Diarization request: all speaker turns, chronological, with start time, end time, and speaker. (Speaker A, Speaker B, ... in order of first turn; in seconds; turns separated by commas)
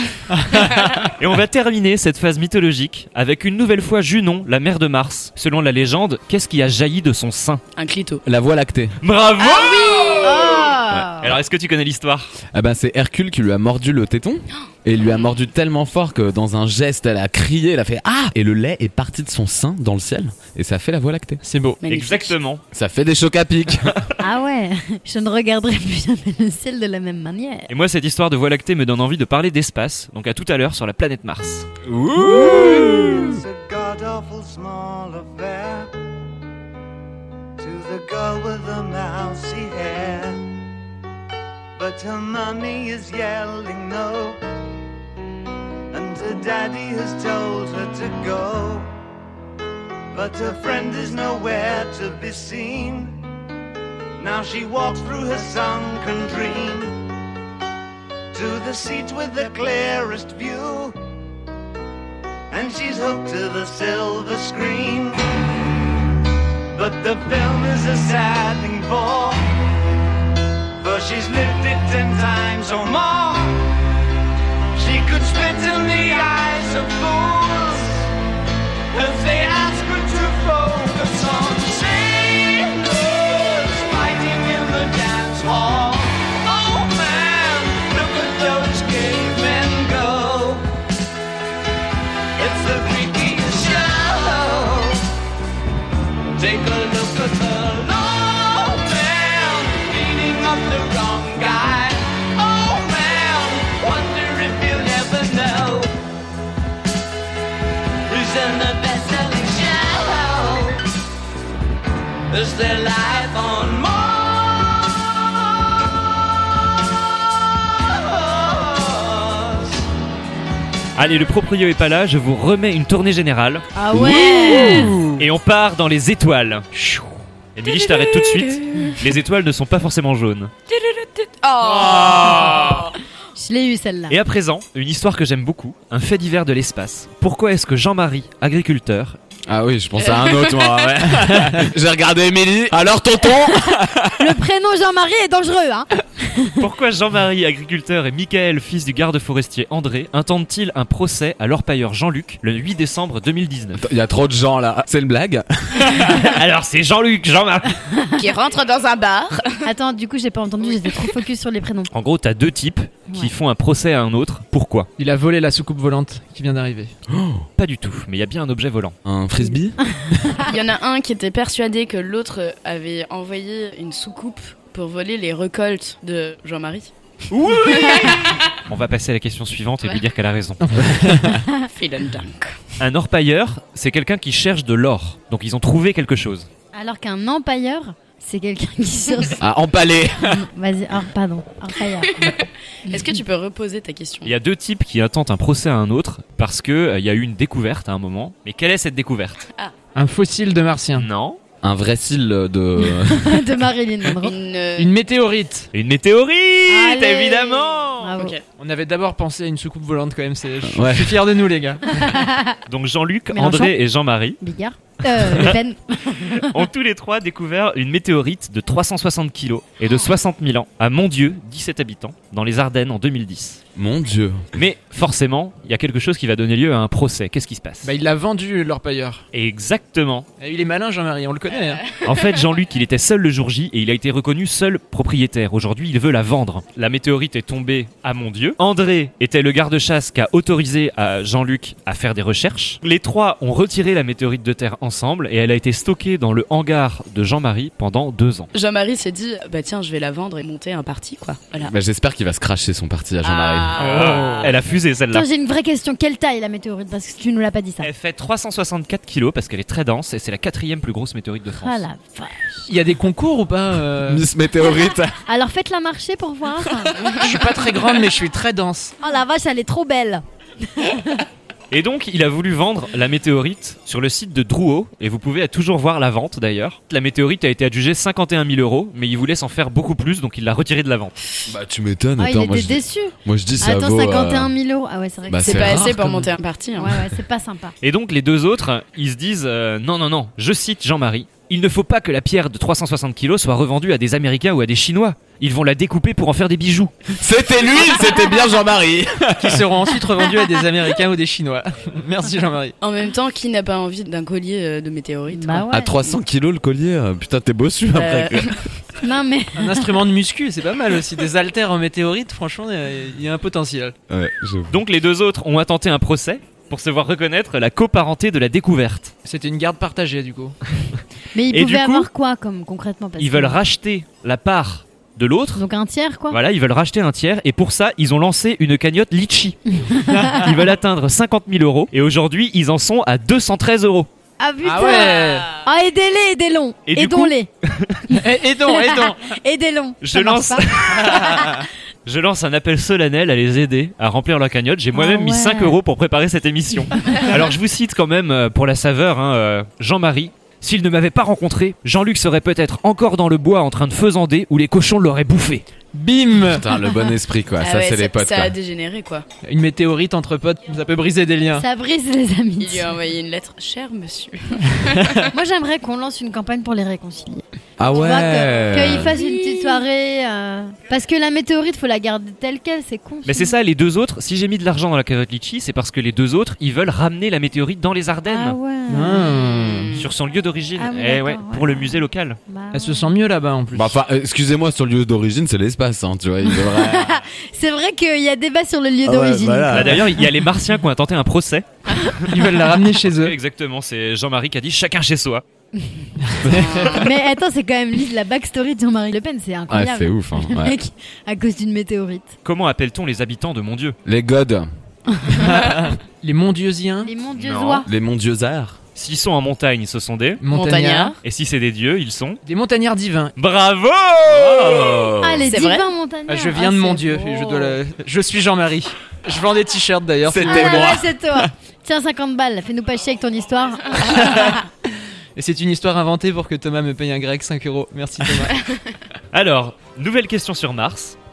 Speaker A: 0.5-7.6, Speaker B: 0.6-0.9, Speaker B: 7.8-8.2, Speaker C: 8.2-9.0, Speaker A: 9.0-10.2, Speaker B: 9.4-10.7, Speaker D: 10.2-11.3, Speaker A: 11.2-12.3, Speaker C: 12.5-21.4, Speaker E: 21.4-21.8, Speaker B: 21.8-22.3, Speaker A: 21.9-22.6, Speaker C: 22.7-24.0, Speaker D: 24.2-27.7, Speaker A: 27.7-31.7, Speaker C: 31.9-33.4, Speaker F: 33.2-35.9, Speaker F: 37.6-40.4, Speaker F: 41.8-44.4, Speaker F: 45.9-48.9, Speaker F: 50.1-53.2, Speaker F: 54.2-57.0, Speaker F: 58.3-61.0, Speaker F: 62.5-65.4, Speaker F: 66.7-69.5, Speaker F: 70.8-73.7, Speaker F: 74.7-78.1, Speaker F: 78.9-90.6, Speaker F: 92.3-95.1, Speaker F: 96.3-105.9, Speaker F: 108.1-110.8, Speaker F: 112.3-114.9, Speaker F: 117.8-119.7, Speaker A: 121.0-123.7, Speaker D: 123.7-124.9, Speaker B: 124.0-125.0, Speaker E: 124.5-125.1, Speaker A: 125.2-126.7, Speaker A: 127.5-130.5, Speaker B: 127.6-129.0, Speaker B: 130.7-132.9, Speaker F: 131.7-132.5, Speaker D: 133.3-134.2, Speaker A: 134.1-139.2, Speaker C: 139.5-144.3, Speaker B: 140.0-141.0, Speaker D: 144.2-146.6, Speaker A: 146.6-153.8, Speaker C: 153.8-156.1, Speaker A: 155.8-157.8, Speaker B: 158.2-159.7, Speaker D: 159.6-161.9, Speaker A: 161.9-164.9, Speaker E: 165.0-166.9, Speaker C: 167.1-167.4, Speaker A: 167.6-168.9, Speaker C: 169.0-170.3, Speaker D: 169.9-170.5, Speaker B: 170.4-176.9, Speaker A: 177.3-180.8, Speaker B: 177.5-178.5, Speaker E: 180.6-181.4, Speaker B: 181.5-182.6, Speaker A: 182.8-186.5, Speaker D: 186.7-189.4, Speaker C: 189.4-190.4, Speaker D: 190.2-192.3, Speaker B: 192.1-194.3, Speaker A: 194.2-199.5, Speaker E: 199.9-201.1, Speaker A: 201.0-201.4, Speaker C: 201.6-203.6, Speaker D: 202.8-204.3, Speaker B: 204.2-204.9, Speaker E: 204.8-205.7, Speaker A: 205.7-208.2, Speaker D: 206.7-208.4, Speaker B: 208.2-208.4, Speaker E: 208.6-212.1, Speaker C: 210.6-211.2, Speaker D: 211.9-212.6, Speaker A: 212.7-214.4, Speaker D: 213.3-213.7, Speaker D: 214.4-216.6, Speaker A: 215.1-215.6, Speaker A: 216.3-223.6, Speaker C: 223.8-224.5, Speaker A: 224.6-227.9, Speaker E: 227.8-229.2, Speaker A: 229.3-230.3, Speaker E: 230.4-231.8, Speaker A: 232.0-248.5, Speaker B: 248.5-251.7, Speaker C: 251.6-254.1, Speaker B: 253.2-254.5, Speaker A: 253.8-255.2, Speaker D: 255.1-257.9, Speaker A: 257.8-261.8, Speaker D: 261.6-262.7, Speaker E: 262.7-264.2, Speaker C: 264.1-265.1, Speaker D: 265.3-267.1, Speaker E: 267.1-268.9, Speaker D: 269.0-271.2, Speaker A: 271.7-281.1, Speaker C: 281.5-284.5, Speaker D: 282.2-285.8, Speaker C: 285.3-286.3, Speaker B: 285.4-287.1, Speaker D: 286.8-287.7, Speaker A: 287.8-296.9, Speaker C: 297.1-299.7, Speaker E: 299.4-302.7, Speaker B: 302.8-305.7, Speaker D: 305.3-306.0, Speaker C: 305.7-308.6, Speaker B: 307.9-308.8, Speaker D: 309.0-309.9, Speaker E: 309.6-313.9, Speaker C: 314.1-314.8, Speaker A: 314.7-319.1, Speaker E: 319.2-320.6, Speaker D: 321.3-323.6, Speaker A: 321.5-322.1, Speaker A: 323.2-325.6, Speaker D: 325.6-326.4, Speaker A: 326.3-334.1, Speaker D: 329.7-330.4, Speaker D: 334.4-337.5, Speaker E: 334.6-335.5, Speaker B: 335.0-335.4, Speaker A: 336.9-338.1, Speaker E: 338.1-339.2, Speaker D: 338.6-341.6, Speaker A: 340.0-355.6, Speaker D: 344.9-345.8, Speaker E: 355.9-356.6, Speaker C: 356.5-358.6, Speaker B: 357.6-359.2, Speaker E: 359.4-361.6, Speaker D: 361.6-362.9, Speaker B: 362.6-365.2, Speaker D: 365.3-373.5, Speaker C: 367.8-369.1, Speaker B: 368.9-369.8, Speaker A: 373.2-378.6, Speaker D: 378.3-379.6, Speaker E: 378.9-379.9, Speaker B: 379.3-380.1, Speaker A: 379.9-382.4, Speaker D: 380.8-383.1, Speaker E: 382.7-383.9, Speaker C: 383.7-387.2, Speaker D: 386.4-389.9, Speaker C: 389.0-390.3, Speaker A: 389.7-392.5, Speaker E: 392.3-393.4, Speaker A: 393.0-395.4, Speaker E: 396.3-396.6, Speaker C: 396.4-396.8, Speaker B: 396.5-397.1, Speaker D: 396.8-402.3, Speaker C: 399.7-400.8, Speaker A: 402.4-404.0, Speaker C: 404.1-404.7, Speaker E: 405.4-407.1, Speaker D: 407.0-407.9, Speaker A: 407.4-407.9, Speaker C: 407.9-408.8, Speaker A: 408.9-410.4, Speaker E: 410.4-411.1, Speaker B: 410.5-411.2, Speaker A: 411.2-412.4, Speaker E: 412.4-413.3, Speaker A: 413.4-415.1, Speaker C: 414.2-415.5, Speaker D: 415.2-417.8, Speaker B: 415.5-415.9, Speaker E: 416.3-421.0, Speaker C: 420.2-421.1, Speaker D: 420.4-424.6, Speaker E: 425.4-428.6, Speaker A: 429.3-431.1